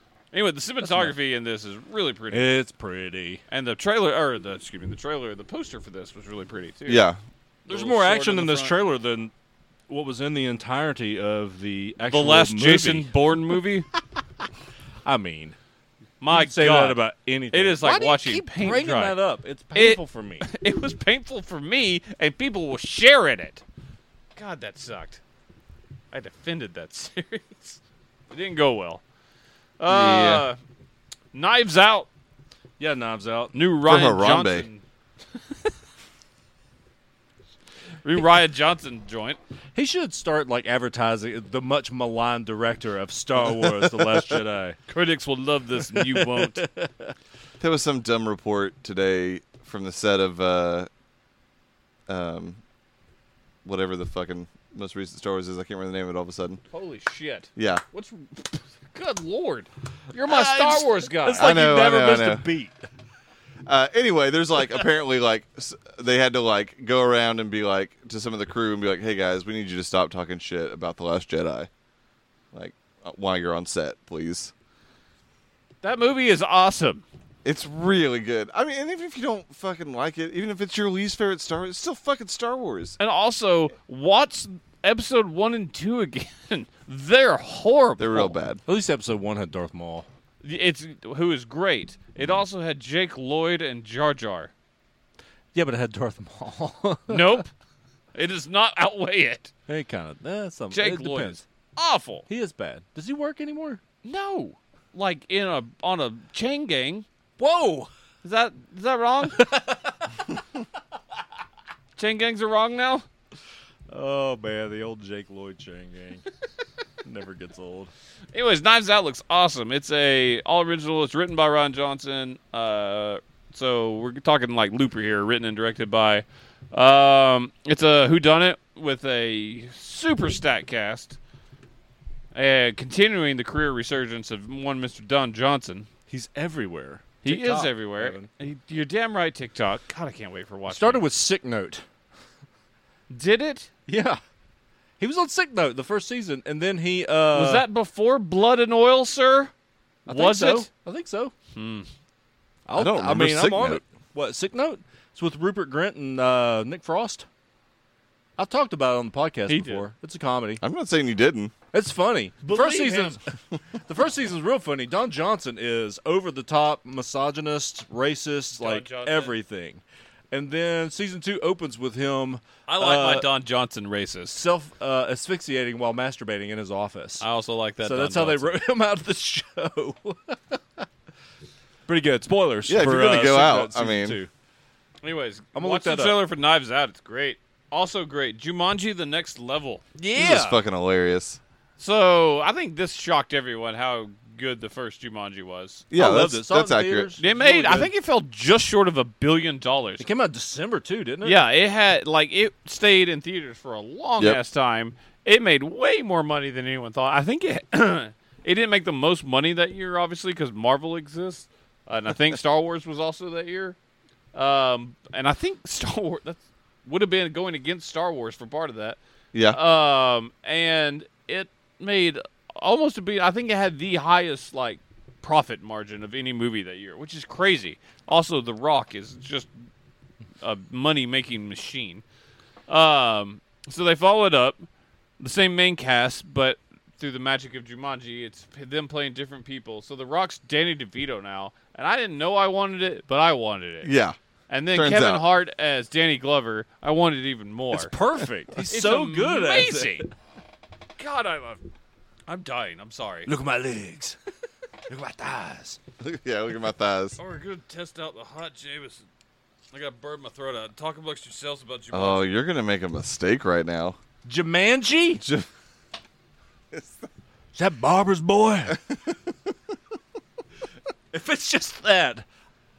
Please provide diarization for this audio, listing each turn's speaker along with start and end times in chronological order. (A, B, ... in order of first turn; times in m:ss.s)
0:00.3-0:02.5 A
0:00.8-0:01.1 B
0:02.3-0:03.4 B
0:03.5-0:07.0 A
0:06.9-0:07.2 C
0:07.7-0:08.7 A
0:07.7-0:09.3 B
0:09.9-0:13.1 B
0:12.1-0:13.9 A
0:15.0-0:15.6 B
0:16.2-0:17.0 A
0:16.3-0:20.5 B
0:17.5-0:19.2 A
0:19.7-0:23.6 A
0:24.4-0:25.2 A
0:26.1-0:27.8 A
0:28.3-0:29.0 A
0:29.8-0:30.6 A
0:29.9-0:30.4 C
0:31.3-0:32.1 A
0:32.8-0:33.5 B
0:33.5-0:34.8 A
0:33.8-0:34.7 C
0:38.0-0:39.4 A
0:39.7-0:44.8 B
0:44.9-0:46.6 A
0:45.9-0:47.1 B
0:47.6-0:50.9 C
0:52.1-0:52.6 C
0:53.6-0:56.6 C
0:56.7-1:01.5 A
0:57.6-0:57.8 C
1:00.2-1:02.8 B
1:01.4-1:02.4 C
1:03.6-1:11.7 C
1:12.5-1:14.5 C
1:15.8-1:17.0 A
1:17.4-1:23.0 C
1:23.0-1:28.4 A
1:28.0-1:28.6 C
1:28.7-1:30.0 B
1:30.4-1:34.5 A
1:35.5-1:37.4 B
1:37.1-1:37.5 A
1:38.1-1:39.5 A
1:39.7-1:41.4 B
1:40.7-1:42.3 A
1:42.3-1:43.8 B
1:44.0-1:47.0 A
1:47.4-1:47.9 B
1:48.2-1:49.4 A
1:49.3-1:50.0 B
1:52.0-1:53.0 A
1:53.9-1:56.2 B
1:57.0-1:57.9 B
1:58.3-2:11.2 A
2:12.3-2:15.9 A
2:16.1-2:18.3 B
2:17.2-2:21.0 A
2:20.7-2:21.8 B
2:23.1-2:23.7 A
2:23.9-2:24.2 B
2:25.0-2:27.6 B
2:27.3-2:29.5 A
2:30.0-2:30.7 A
2:30.0-2:31.3 B
2:31.5-2:31.9 A
2:32.7-2:37.3 B
2:32.8-2:33.8 C
2:38.4-2:40.6 B
2:39.5-2:39.8 A
2:40.6-2:41.5 C
2:41.7-2:43.2 B
2:42.4-2:43.2 A
2:43.8-2:53.3 B
2:48.6-2:49.3 A
2:52.7-2:54.4 A
2:54.3-2:57.2 B
2:57.2-2:58.5 A
2:57.8-3:00.8 B
3:01.9-3:04.3 B
3:02.7-3:04.2 C
3:05.0-3:09.8 A
3:05.5-3:06.2 B
3:10.0-3:10.6 B
3:10.2-3:11.4 C
3:11.8-3:15.9 A
3:15.9-3:17.1 C
3:15.9-3:17.9 B
3:17.2-3:20.0 A
3:20.0-3:21.4 B
3:21.2-3:33.8 A
3:34.3-3:39.0 A
3:39.3-3:39.6 C
3:39.5-3:49.5 A
3:50.4-3:52.0 A
3:52.7-3:54.7 A
3:55.2-4:03.9 A
4:03.8-4:04.2 C
4:04.5-4:07.9 A
4:04.7-4:05.2 C
4:07.7-4:10.1 B
4:08.7-4:10.0 A
4:11.0-4:11.6 A
4:12.3-4:13.3 A
4:13.2-4:14.2 B
4:14.9-4:15.8 B
4:16.0-4:17.2 C
4:17.2-4:19.0 A
4:19.7-4:22.3 A
4:21.9-4:24.0 C
4:24.2-4:25.2 B
4:25.2-4:25.5 C
4:26.7-4:27.0 C
4:27.5-4:28.8 B
4:28.7-4:29.2 C
4:31.1-4:32.2 B